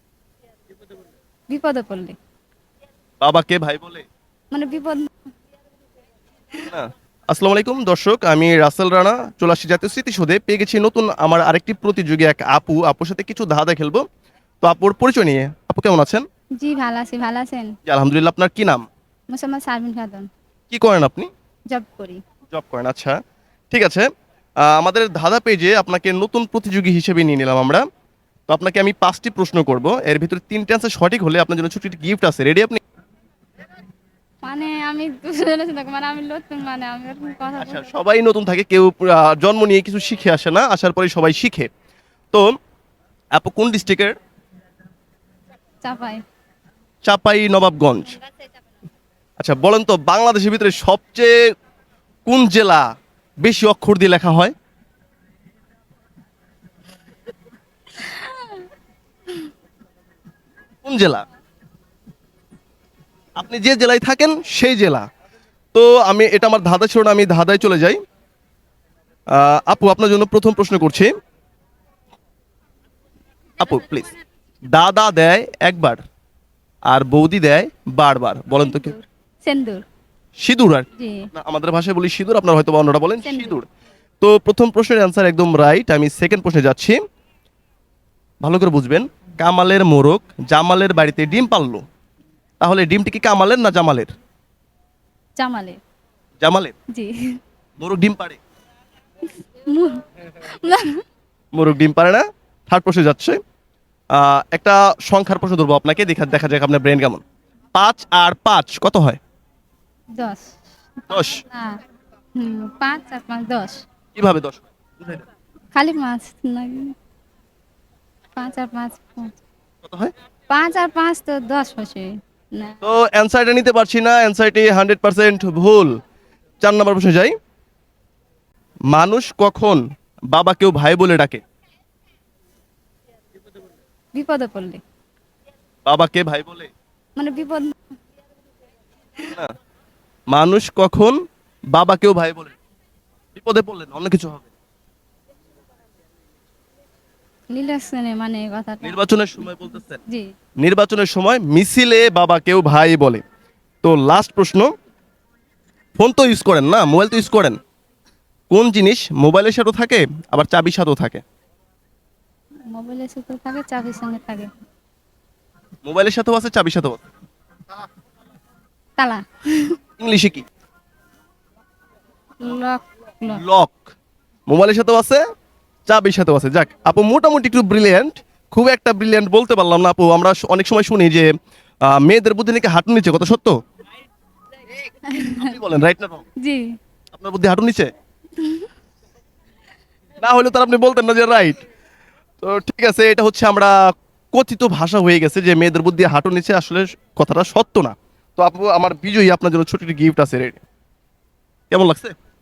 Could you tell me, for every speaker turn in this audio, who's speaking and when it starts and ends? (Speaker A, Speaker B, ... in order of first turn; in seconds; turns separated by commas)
Speaker A: 1.5-2.2, Speaker B: 3.2-4.0, Speaker A: 4.5-5.1, Speaker B: 6.7-14.1, Speaker B: 14.6-16.3, Speaker A: 16.6-17.8, Speaker B: 17.9-18.8, Speaker A: 19.3-20.3, Speaker B: 20.7-21.3, Speaker A: 21.7-22.2, Speaker B: 22.5-23.2, Speaker B: 23.7-24.1, Speaker B: 24.6-27.9, Speaker B: 28.5-32.8, Speaker A: 34.4-37.9, Speaker B: 37.6-41.7, Speaker B: 43.4-44.2, Speaker A: 45.8-46.2, Speaker B: 47.0-48.2, Speaker B: 49.4-51.4, Speaker B: 52.3-52.9, Speaker B: 53.4-54.5, Speaker A: 58.0-58.6, Speaker B: 60.8-61.2, Speaker B: 63.4-65.1, Speaker B: 65.7-68.0, Speaker B: 69.3-71.1, Speaker B: 73.6-74.1, Speaker B: 74.8-76.0, Speaker B: 76.9-79.0, Speaker A: 78.6-79.8, Speaker B: 80.4-83.7, Speaker A: 81.0-81.3, Speaker A: 83.2-83.6, Speaker B: 84.2-87.0, Speaker B: 88.4-91.8, Speaker B: 92.6-94.1, Speaker A: 95.4-95.8, Speaker B: 96.4-96.7, Speaker A: 96.9-97.4, Speaker B: 97.8-98.4, Speaker A: 99.6-101.0, Speaker B: 101.5-103.4, Speaker B: 104.1-107.2, Speaker B: 107.8-109.2, Speaker A: 110.2-111.8, Speaker B: 111.1-111.4, Speaker A: 112.4-113.8, Speaker B: 114.2-115.2, Speaker A: 115.8-117.0, Speaker A: 118.4-119.4, Speaker B: 119.8-120.1, Speaker A: 120.5-122.8, Speaker B: 122.8-126.0, Speaker B: 126.6-127.3, Speaker B: 128.9-131.4, Speaker A: 134.1-134.8, Speaker B: 135.9-136.7, Speaker A: 137.2-137.8, Speaker B: 140.3-141.2, Speaker B: 141.7-142.6, Speaker B: 143.3-144.5, Speaker A: 147.5-149.0, Speaker B: 148.8-150.0, Speaker B: 150.6-153.2, Speaker B: 153.8-154.7, Speaker B: 156.0-157.6, Speaker B: 158.5-161.2, Speaker A: 162.7-164.5, Speaker B: 165.8-167.0, Speaker A: 169.0-169.8, Speaker B: 170.0-170.5, Speaker A: 172.4-173.4, Speaker B: 173.3-173.9, Speaker B: 174.5-175.2, Speaker B: 175.9-181.3, Speaker B: 181.8-183.6, Speaker A: 185.1-185.6, Speaker B: 185.2-186.2, Speaker A: 186.4-186.8, Speaker B: 187.1-187.9, Speaker A: 188.4-188.7, Speaker B: 190.2-191.6, Speaker B: 192.4-193.8, Speaker B: 194.3-200.6, Speaker B: 201.7-202.2